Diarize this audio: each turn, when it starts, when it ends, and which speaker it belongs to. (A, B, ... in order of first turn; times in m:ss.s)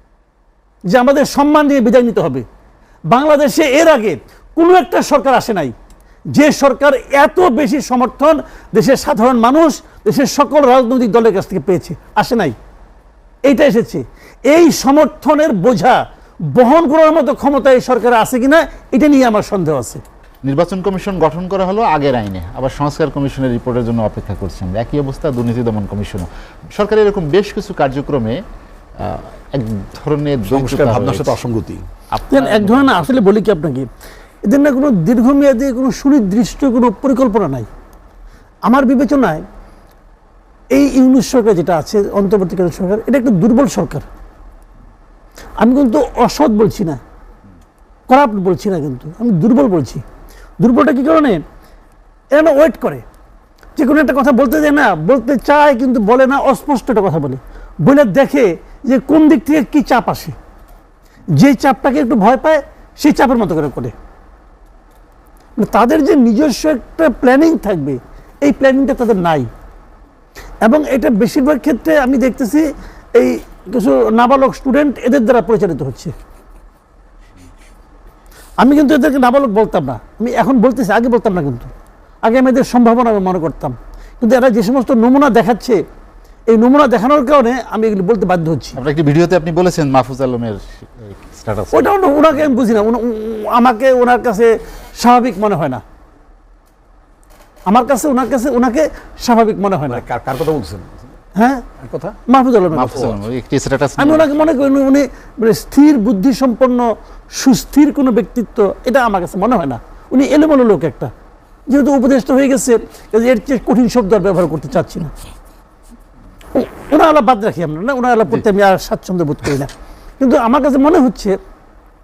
0:00.9-0:02.4 A
0:03.1-0:05.7 A
0:06.3-0:12.5 A
0:13.4-0:16.0 A
0:16.5-0:20.0 A
0:20.4-0:28.4 B
0:29.0-0:31.4 B
0:30.5-0:31.8 C
0:32.1-0:33.2 B
0:32.3-0:33.9 A
0:34.4-0:37.7 A
0:38.7-0:39.4 A
0:40.7-0:44.0 A
0:45.6-0:47.0 A
0:48.1-0:50.0 A
0:50.6-0:51.4 A
0:52.3-0:53.0 A
0:53.8-1:00.3 A
1:01.4-1:03.9 A
1:05.6-1:09.5 A
1:10.6-1:16.1 A
1:18.6-1:21.7 A
1:22.2-1:25.8 A
1:26.5-1:28.8 A
1:28.8-1:32.6 B
1:31.7-1:35.8 A
1:37.7-1:40.0 A
1:39.9-1:41.1 C
1:41.3-1:41.7 A
1:41.8-1:42.1 C
1:42.2-1:43.1 A
1:42.7-1:44.6 B
1:44.0-1:51.1 A
1:51.7-1:55.1 A
1:56.5-2:01.4 A